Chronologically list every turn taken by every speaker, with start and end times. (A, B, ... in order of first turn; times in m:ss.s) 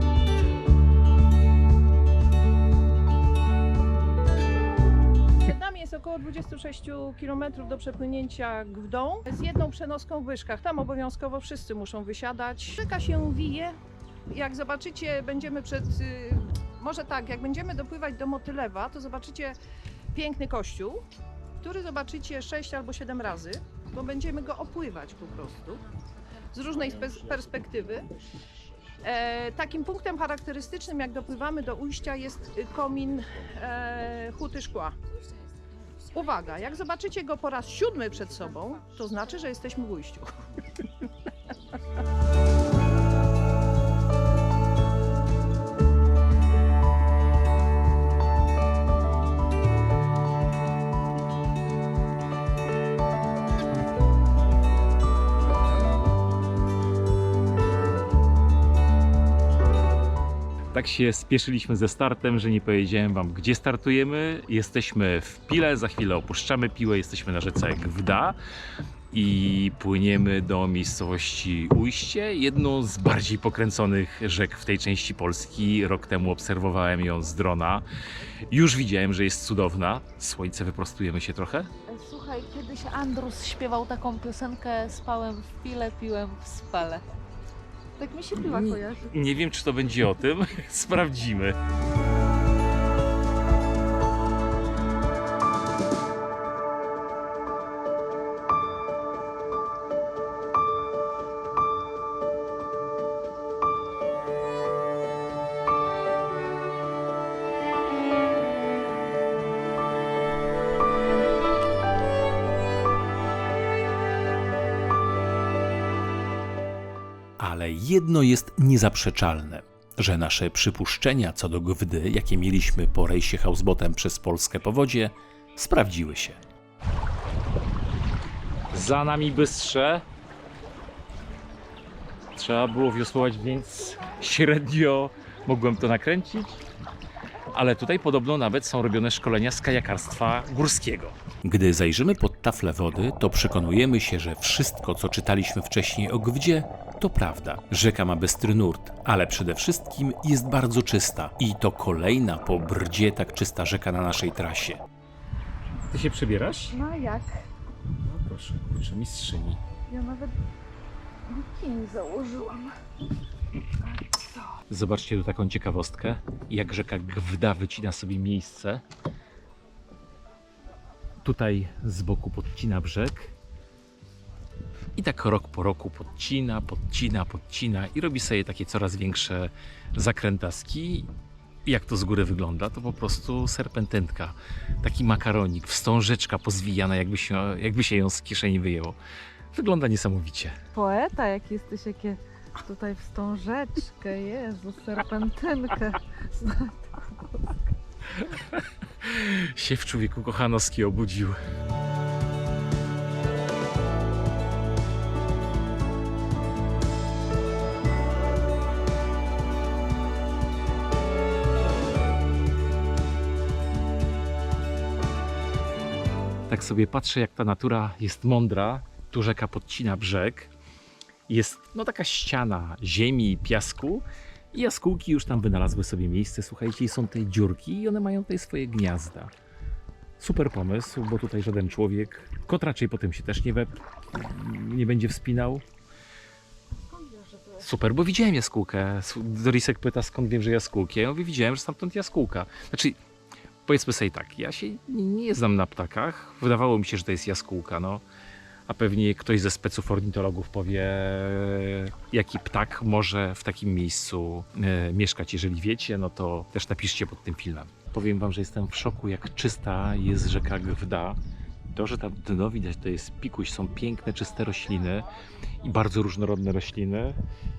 0:05.4-0:13.8 A
0:14.3-0:19.6 A
0:20.1-0:21.0 A
0:21.6-0:25.8 A
0:26.5-0:28.1 A
0:29.0-0:35.0 A
0:36.1-0:40.3 A
1:00.7-1:08.4 B
1:09.1-1:17.9 B
1:18.5-1:21.7 B
1:21.9-1:27.0 C
1:28.0-1:29.1 C
1:28.4-1:31.6 B
1:57.4-2:06.4 B
2:08.7-2:10.1 B
2:12.3-2:16.6 B
2:17.5-2:34.8 B
2:35.9-2:36.8 B
2:36.8-2:37.4 A
2:38.0-2:39.6 B
2:39.9-2:40.4 A
2:41.3-2:42.7 A
2:43.8-2:44.3 A
2:44.7-2:48.8 B
2:51.2-2:53.3 B
2:55.0-3:01.1 B
3:01.6-3:09.0 B
3:09.5-3:10.6 B
3:10.7-3:17.6 C
3:18.1-3:21.4 B
3:36.5-3:40.5 B
3:41.3-3:49.3 B
3:50.2-3:55.6 B
3:57.5-4:03.0 B
4:03.6-4:08.0 B
4:08.7-4:21.2 B
4:21.7-4:25.1 B
4:25.6-4:27.2 B